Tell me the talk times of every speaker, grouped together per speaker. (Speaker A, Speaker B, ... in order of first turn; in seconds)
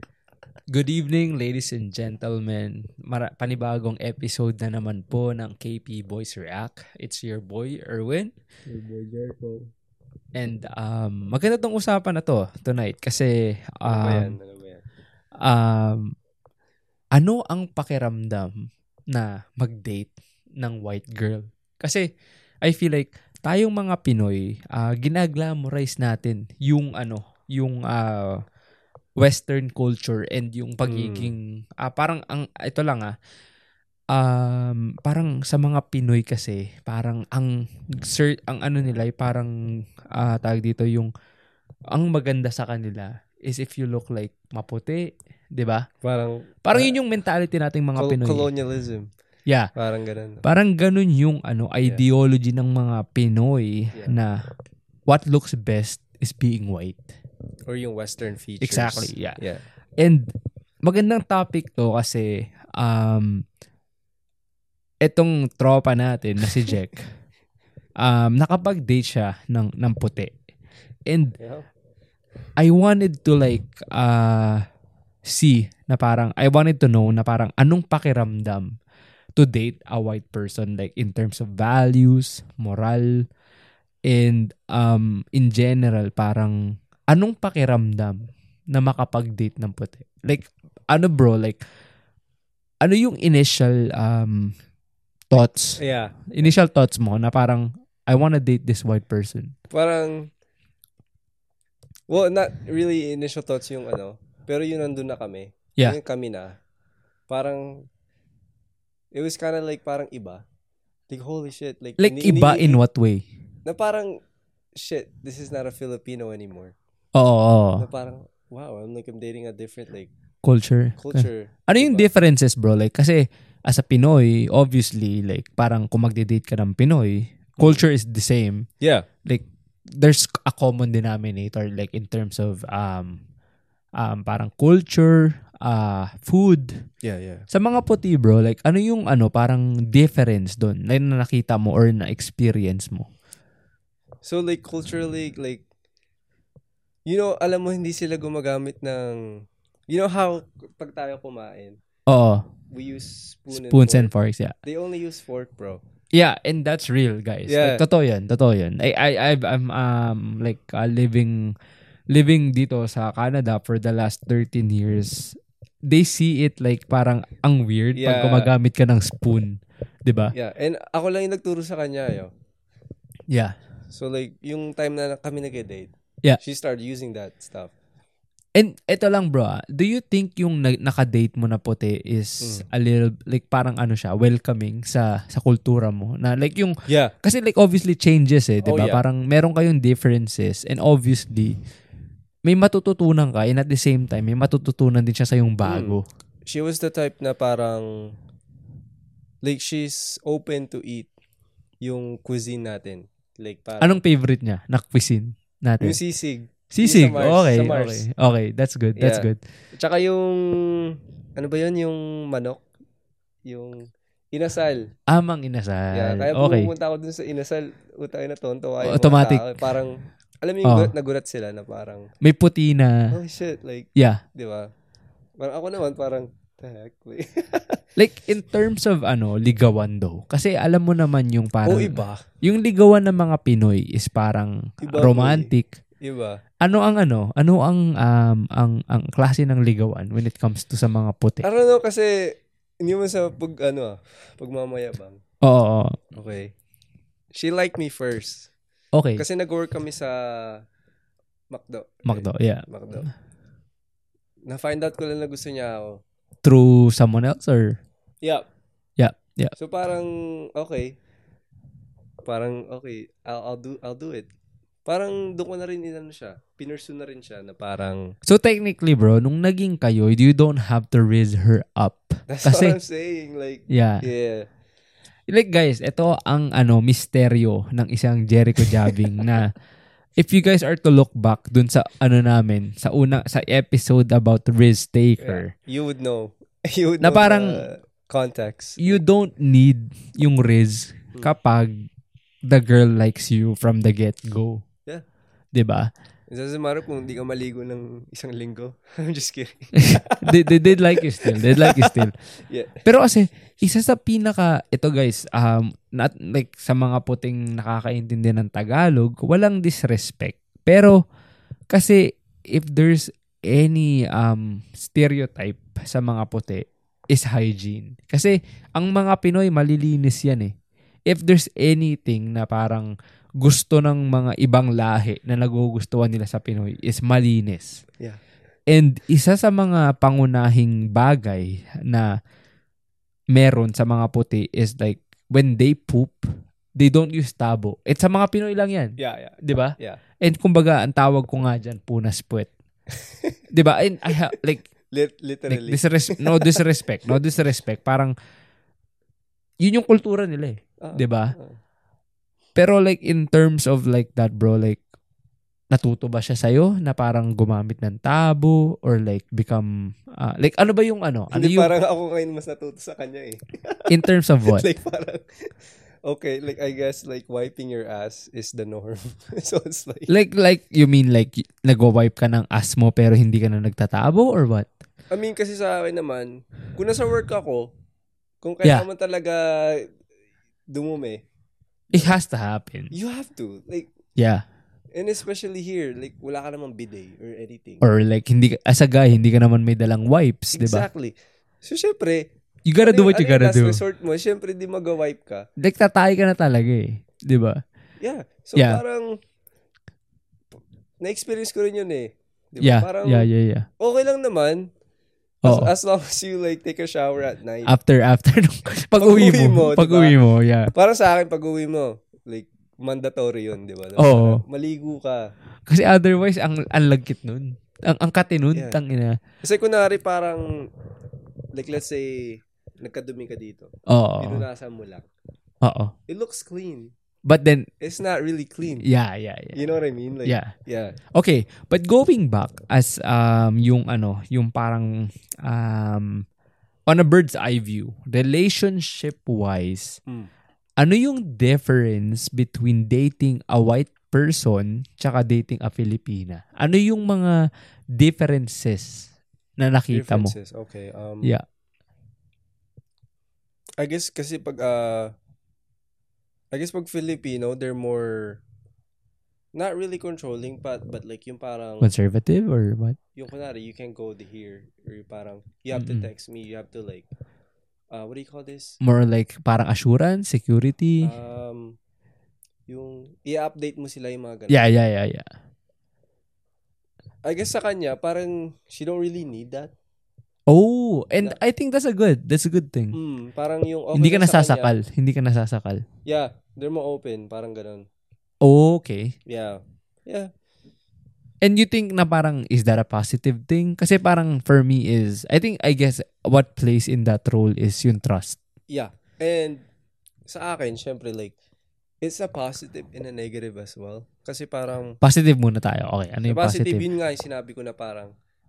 Speaker A: 0.7-8.3, 10.3-14.3, 15.4-16.1, 17.1-22.1, 22.6-28.4, 29.2-33.1, 34.1-41.1, 41.9-45.9, 46.6-48.5, 50.4-54.4, 55.1-57.1, 58.6-59.4, 60.0-60.3, 60.8-63.5, 65.0-67.0, 68.0-70.3, 71.1-71.4, 72.6-74.7, 75.2-78.8, 79.4-83.2, 84.0-86.6, 87.1-91.6, 92.8-94.5, 95.3-99.5, 112.0-113.3, 117.2-117.9, 120.4-128.7, 129.2-133.2, 134.0-136.8, 137.5-143.1, 152.1-152.5, 153.5-154.5, 156.1-161.5, 162.1-165.3, 165.9-170.3, 173.3-173.5, 178.5-191.6, 192.4-196.1, 203.8-206.0, 206.7-209.4, 215.1-216.7, 218.8-219.5, 220.6-220.9, 222.2-223.1, 223.9-224.2, 227.9-235.7, 236.6-241.4, 245.4-246.0, 248.9-249.2, 252.1-252.7, 256.4-257.8, 259.0-259.5, 268.2-272.8, 273.7-274.0, 275.3-279.5, 280.2-285.5, 287.0-287.6, 288.8-291.9, 292.4-294.6, 295.5-295.9, 299.8-302.1, 302.8-311.0, 311.7-320.5, 321.1-327.8, 328.7-332.1, 333.3-342.5, 343.5-344.6, 345.5-348.1, 349.6-351.3, 352.6-354.8, 355.7-361.7, 363.9-364.7, 370.1-374.7, 381.9-382.9, 384.2-384.4, 387.8-390.9, 392.6-393.8, 395.6-397.6, 398.6-398.8, 402.6-403.7, 405.4-405.7, 407.7-410.7, 414.0-414.4, 415.7-419.2, 423.9-424.4, 425.6-425.9, 427.2-427.7, 428.8-429.6, 430.2-430.5, 431.1-436.2, 436.9-440.0, 440.8-447.4, 448.0-449.1, 449.6-450.3, 461.8-463.0, 465.8-466.1, 468.8-471.1, 474.5-475.3, 480.5-482.9, 483.9-485.8, 488.4-489.1, 491.4-498.4, 505.0-506.8
Speaker B: 8.7-9.7, 13.8-14.8, 30.8-31.3, 46.0-47.0, 48.0-49.1, 49.8-50.5, 57.7-59.6, 71.4-71.7, 95.8-96.6, 99.7-100.3, 102.1-106.6, 107.3-107.9, 109.1-110.4, 111.1-112.8, 113.7-114.2, 114.8-116.7, 117.8-120.1, 121.0-122.1, 127.6-127.8, 128.8-129.1, 137.0-137.4, 144.2-145.6, 147.1-149.2, 149.9-151.8, 152.7-154.1, 154.6-155.8, 157.5-157.8, 167.9-168.5, 170.3-172.3, 173.9-177.7, 188.6-189.0, 195.6-198.1, 199.4-201.1, 201.8-204.0, 205.8-208.0, 209.0-212.6, 213.5-214.9, 215.9-222.1, 223.1-224.7, 225.4-227.8, 231.6-232.2, 234.8-236.4, 241.4-245.2, 246.1-246.5, 247.3-248.5, 249.2-250.6, 251.5-253.1, 254.5-256.0, 259.6-261.0, 262.2-264.3, 264.9-268.1, 272.3-274.4, 285.2-289.0, 296.3-302.8, 339.0-340.0, 342.9-343.4, 344.9-346.6, 350.8-351.6, 361.3-365.5, 366.1-370.1, 375.1-377.7, 378.4-379.9, 380.7-381.2, 381.9-382.1, 382.9-383.9, 384.9-387.8, 390.5-392.3, 392.8-395.5, 398.0-399.2, 401.0-403.3, 403.8-404.7, 405.4-407.7, 408.9-410.1, 410.7-415.3, 419.4-420.5, 421.6-425.1, 426.1-426.9, 427.8-428.9, 429.6-430.9, 449.9-451.3, 453.8-455.1, 456.5-458.4, 459.6-461.9, 463.1-467.1, 467.9-468.8, 471.0-471.8, 472.7-474.6, 477.2-479.7, 482.9-484.8, 486.1-487.9, 489.3-490.3, 498.7-499.6, 500.3-501.3, 502.0-505.0, 506.2-508.1